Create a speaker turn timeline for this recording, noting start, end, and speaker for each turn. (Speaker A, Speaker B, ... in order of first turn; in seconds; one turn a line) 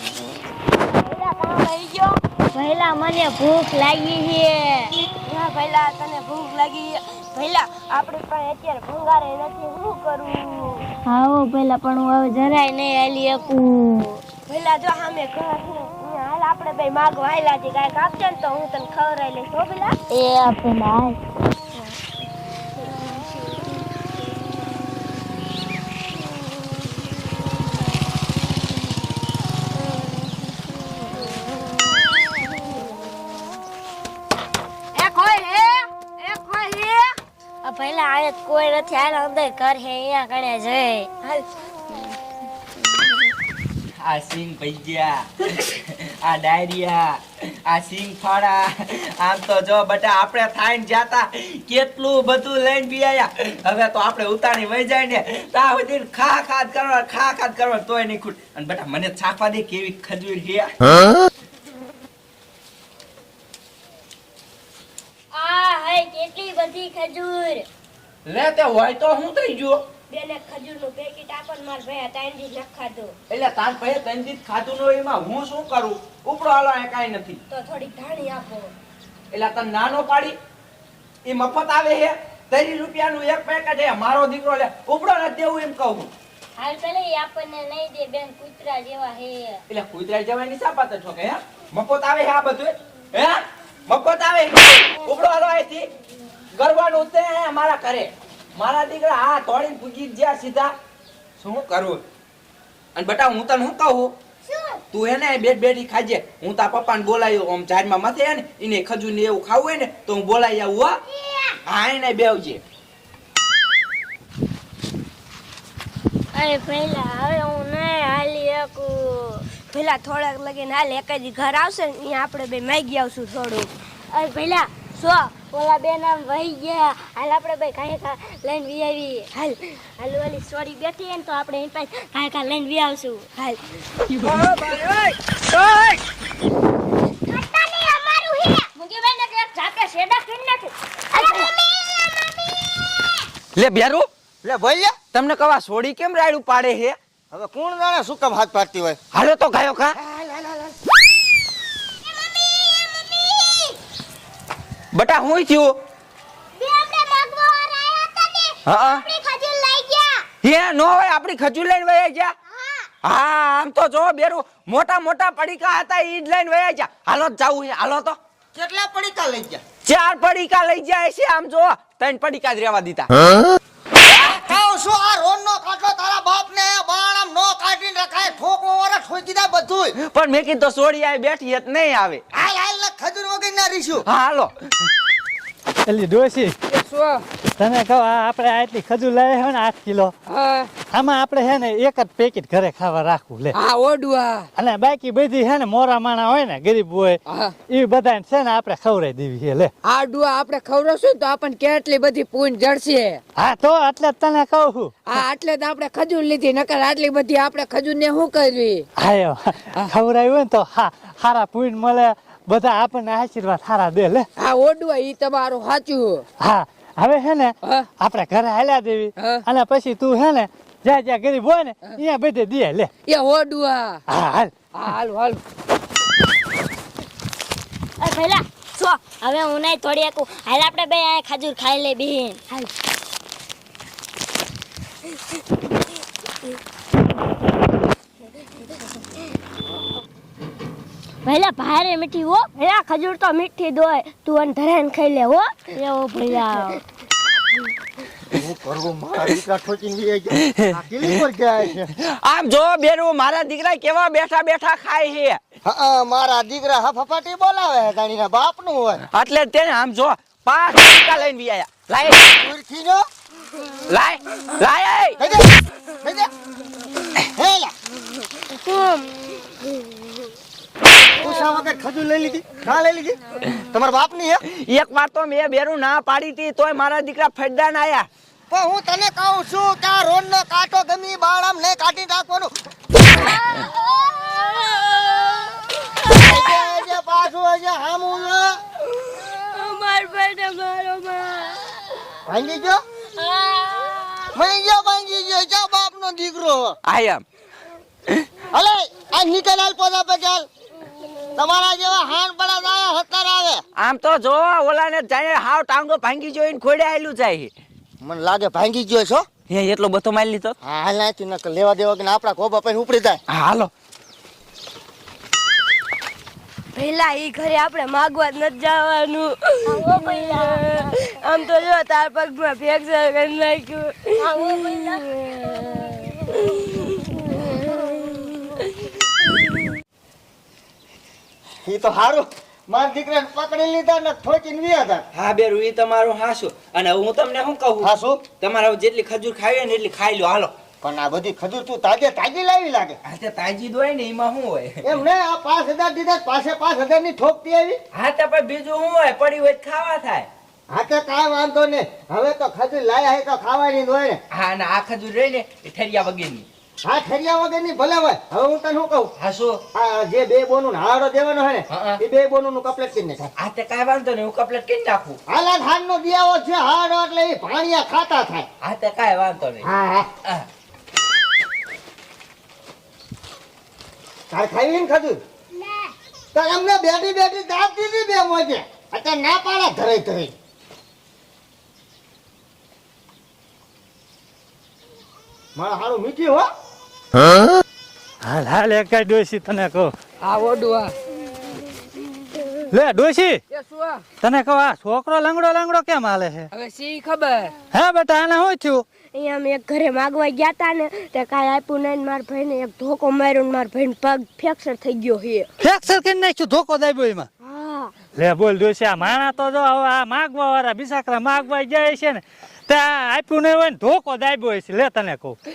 Speaker A: 0.9-2.2
Speaker B: 2.5-4.9
Speaker A: 5.2-10.8
Speaker B: 11.0-14.2
Speaker A: 14.4-19.9
Speaker B: 20.1-21.2
Speaker A: 35.0-37.1
Speaker B: 37.6-41.1
Speaker C: 44.0-60.7
Speaker B: 65.3-67.7
Speaker C: 68.2-69.8
Speaker A: 70.1-73.1
Speaker C: 73.3-77.4
Speaker A: 77.5-78.7
Speaker C: 79.3-80.3
Speaker C: 81.2-86.1
Speaker B: 86.6-89.6
Speaker C: 89.7-95.9
Speaker C: 96.5-100.7
Speaker C: 101.4-102.0
Speaker C: 102.9-104.1
Speaker C: 104.9-111.0
Speaker C: 111.6-112.6
Speaker B: 116.3-119.5
Speaker A: 119.7-123.7
Speaker B: 124.1-124.8
Speaker A: 124.9-125.4
Speaker B: 125.4-129.3
Speaker A: 129.3-129.8
Speaker B: 130.0-133.3
Speaker A: 133.4-134.8
Speaker C: 134.2-134.8
Speaker B: 134.3-134.7
Speaker B: 137.3-141.5
Speaker C: 143.5-144.1
Speaker D: 144.4-145.0
Speaker C: 145.1-146.9
Speaker D: 147.3-149.0
Speaker C: 149.1-150.0
Speaker D: 150.1-150.7
Speaker B: 152.3-153.7
Speaker C: 154.9-155.7
Speaker B: 156.6-160.2
Speaker C: 158.6-159.1
Speaker C: 160.4-162.3
Speaker C: 163.0-168.2
Speaker D: 168.5-169.6
Speaker C: 169.8-173.1
Speaker D: 174.1-180.0
Speaker C: 174.1-174.4
Speaker C: 180.0-182.2
Speaker D: 182.3-184.0
Speaker C: 184.0-184.5
Speaker E: 185.8-186.5
Speaker F: 186.7-187.2
Speaker E: 187.6-190.1
Speaker F: 190.3-190.7
Speaker E: 190.9-193.5
Speaker F: 193.6-194.5
Speaker E: 194.6-199.7
Speaker F: 199.8-203.2
Speaker E: 203.3-205.2
Speaker F: 205.1-208.8
Speaker E: 209.0-214.3
Speaker F: 214.4-216.2
Speaker E: 216.4-222.9
Speaker F: 223.0-224.0
Speaker E: 224.1-224.7
Speaker F: 224.7-225.4
Speaker B: 228.0-232.4
Speaker B: 241.2-242.6
Speaker A: 242.6-245.7
Speaker B: 245.8-246.8
Speaker D: 248.3-251.9
Speaker C: 251.9-255.4
Speaker D: 255.6-259.0
Speaker C: 259.1-262.3
Speaker D: 262.3-263.0
Speaker C: 263.9-265.2
Speaker D: 265.2-266.3
Speaker D: 267.2-267.7
Speaker A: 268.6-269.1
Speaker D: 271.2-274.4
Speaker C: 274.5-278.1
Speaker D: 278.5-282.5
Speaker A: 283.4-286.6
Speaker D: 286.1-288.6
Speaker A: 288.9-291.9
Speaker D: 292.2-292.8
Speaker B: 293.2-294.3
Speaker D: 294.3-296.8
Speaker C: 296.8-297.2
Speaker D: 298.5-300.4
Speaker D: 301.3-303.6
Speaker C: 303.8-307.5
Speaker D: 308.0-309.2
Speaker C: 309.5-310.6
Speaker D: 310.6-313.2
Speaker C: 313.3-313.7
Speaker A: 316.7-327.1
Speaker B: 319.7-320.9
Speaker B: 324.2-326.1
Speaker A: 327.7-328.5
Speaker D: 331.6-335.0
Speaker C: 335.1-340.5
Speaker D: 337.8-338.2
Speaker D: 340.8-343.0
Speaker C: 343.0-345.0
Speaker D: 344.8-347.8
Speaker C: 347.9-350.3
Speaker D: 350.7-354.2
Speaker C: 354.3-356.4
Speaker D: 356.8-359.1
Speaker C: 359.2-359.6
Speaker D: 359.7-363.3
Speaker C: 361.7-362.0
Speaker C: 363.4-365.2
Speaker D: 365.3-368.5
Speaker C: 368.6-369.6
Speaker D: 369.6-370.1
Speaker D: 374.3-375.2
Speaker D: 376.3-380.3
Speaker D: 385.6-386.5
Speaker E: 388.2-389.9
Speaker F: 390.2-390.9
Speaker E: 392.7-393.4
Speaker F: 393.5-394.0
Speaker E: 394.2-396.5
Speaker F: 396.6-397.5
Speaker E: 397.7-398.8
Speaker A: 399.1-405.5
Speaker E: 405.6-407.3
Speaker A: 407.4-407.9
Speaker E: 408.2-415.4